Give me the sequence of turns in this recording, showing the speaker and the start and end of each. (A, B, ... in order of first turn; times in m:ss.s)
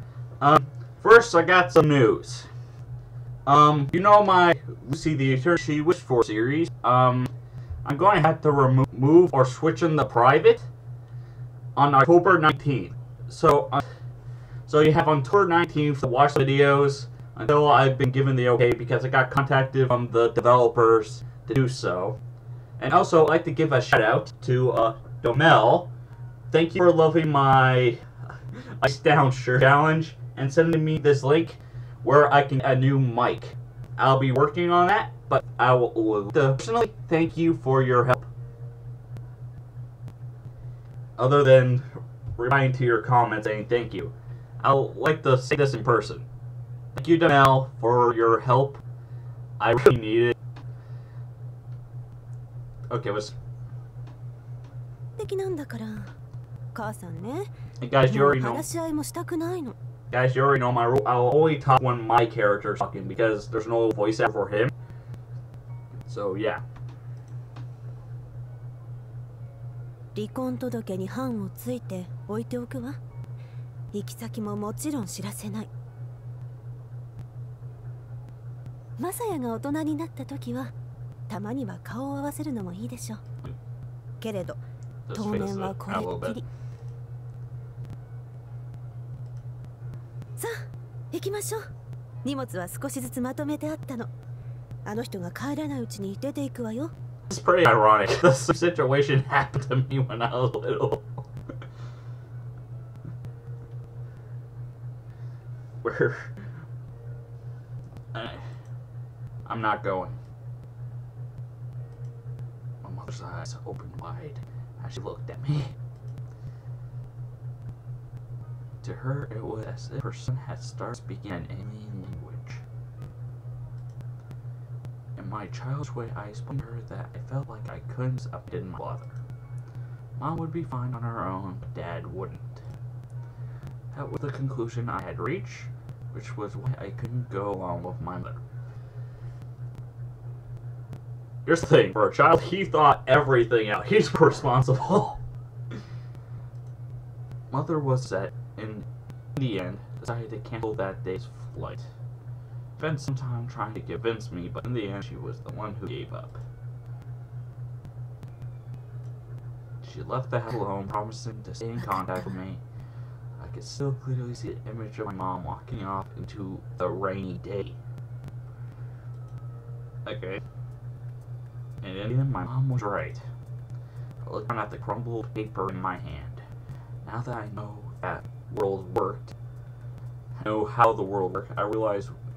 0:00.4-0:02.5 A
0:03.5-0:07.3 A
0:07.8-0:10.7 A
0:11.8-0:13.8 A
0:14.7-0:22.2 A
0:22.8-0:25.9 A
0:26.5-0:28.0 A
0:28.6-0:38.3 A
0:41.2-0:46.3 A
0:46.9-0:48.8 A
0:49.6-0:50.4 A
0:52.9-0:53.4 A
0:55.2-0:56.1 B
0:56.7-0:57.5 B
0:57.8-0:58.6 A
0:58.1-0:59.8 B
1:00.1-1:04.7 A
1:06.1-1:06.6 A
1:10.2-1:13.0 B
1:13.9-1:15.7 B
1:19.0-1:20.7 B
1:21.3-1:23.2 B
1:24.2-1:24.6 B
1:25.1-1:26.4 A
1:25.1-1:26.4 B
1:30.4-1:31.6 B
1:32.2-1:34.1 B
1:34.9-1:36.9 B
1:37.3-1:41.1 A
1:45.8-1:46.3 A
1:48.1-1:48.4 A
1:49.5-1:50.2 A
1:52.8-1:55.8 A
1:58.8-2:02.6 A
2:05.2-2:09.2 A
2:10.2-2:12.6 A
2:13.9-2:18.4 A
2:21.5-2:25.2 A
2:27.5-2:31.8 A
2:32.8-2:36.4 A
2:39.8-2:42.6 A
2:43.4-2:47.8 A
2:50.0-2:50.4 A
2:51.8-2:53.2 A
2:54.2-2:56.4 A
2:57.0-2:59.4 A
3:00.4-3:02.2 A